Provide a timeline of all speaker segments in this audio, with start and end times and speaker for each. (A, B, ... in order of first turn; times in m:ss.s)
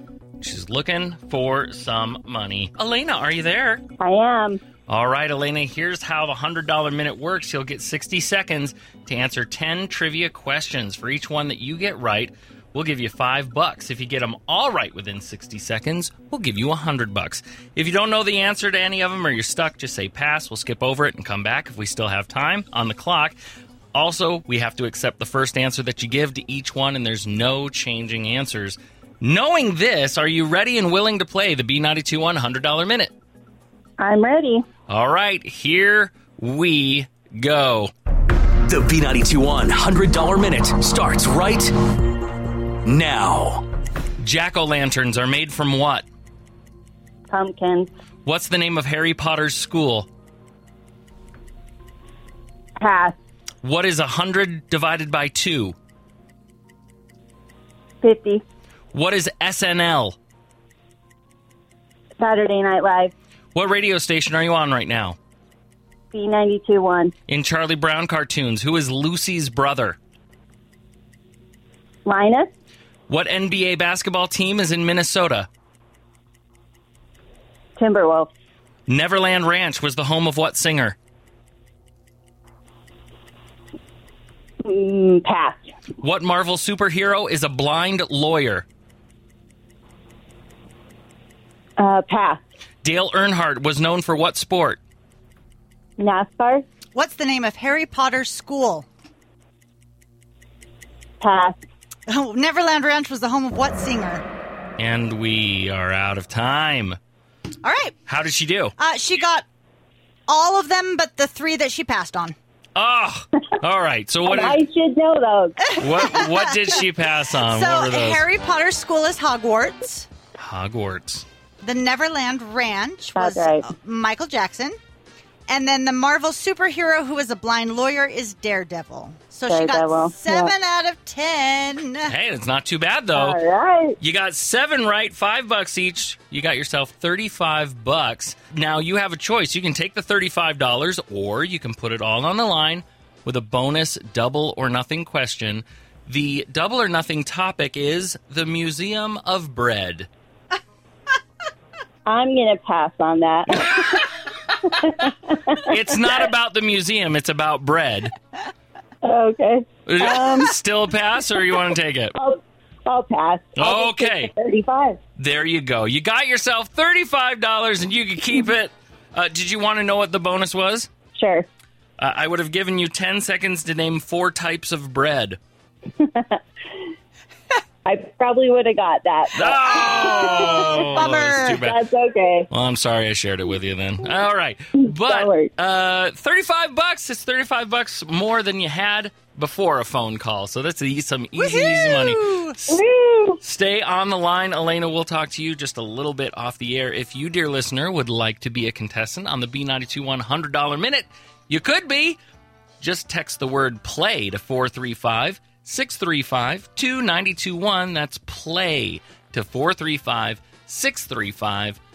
0:00.4-0:03.8 A
0:04.0-0:04.6 B
0:04.9-0:23.4 A
0:23.9-0:33.1 A
0:34.0-0:34.6 B
0:34.9-0:37.9 A
0:38.7-0:41.7 C
0:42.8-0:43.6 C
0:44.2-0:46.0 A
0:47.3-0:47.9 B
0:48.2-0:50.1 A
0:52.8-0:53.2 B
0:53.6-0:55.8 A
0:58.0-0:58.4 B
0:58.9-1:00.2 A
1:02.2-1:03.1 B
1:03.5-1:05.2 A
1:06.1-1:07.1 B
1:07.3-1:10.0 A
1:12.0-1:12.5 B
1:13.1-1:15.5 A
1:17.8-1:18.3 B
1:18.9-1:21.0 A
1:24.6-1:25.7 B
1:26.0-1:28.6 A
1:31.8-1:32.4 B
1:32.8-1:34.8 A
1:36.0-1:36.6 B
1:36.9-1:38.8 D
1:41.2-1:41.6 B
1:42.1-1:44.2 D
1:44.8-1:47.0 A
1:47.6-1:48.0 D
1:48.1-1:48.7 A
1:48.8-1:49.4 D
1:50.3-1:52.4 D
1:52.8-1:54.6 A
1:54.2-1:55.7 B
1:55.6-1:56.6 D
1:55.8-1:58.2 A
1:57.5-2:00.1 D
2:00.4-2:01.2 A
2:01.6-2:04.8 D
2:03.2-2:03.7 B
2:05.5-2:12.1 D
2:09.5-2:10.5 B
2:12.1-2:13.4 A
2:13.1-2:14.0 B
2:14.0-2:30.1 A
2:32.0-2:34.1 B
2:34.6-2:35.7 B
2:35.5-2:38.1 A
2:39.0-2:40.5 B
2:39.9-2:42.1 A
2:42.1-2:45.0 B
2:43.6-2:44.3 A
2:45.2-2:50.9 A
2:51.1-2:51.5 B
2:52.0-2:55.4 A
2:56.0-2:56.4 B
2:57.8-3:02.5 B
2:59.3-3:01.8 A
3:00.8-3:01.6 D
3:02.5-3:12.8 A
3:04.8-3:05.5 B
3:11.4-3:12.6 D
3:12.7-3:13.4 B
3:13.4-3:22.2 A
3:22.8-3:31.8 A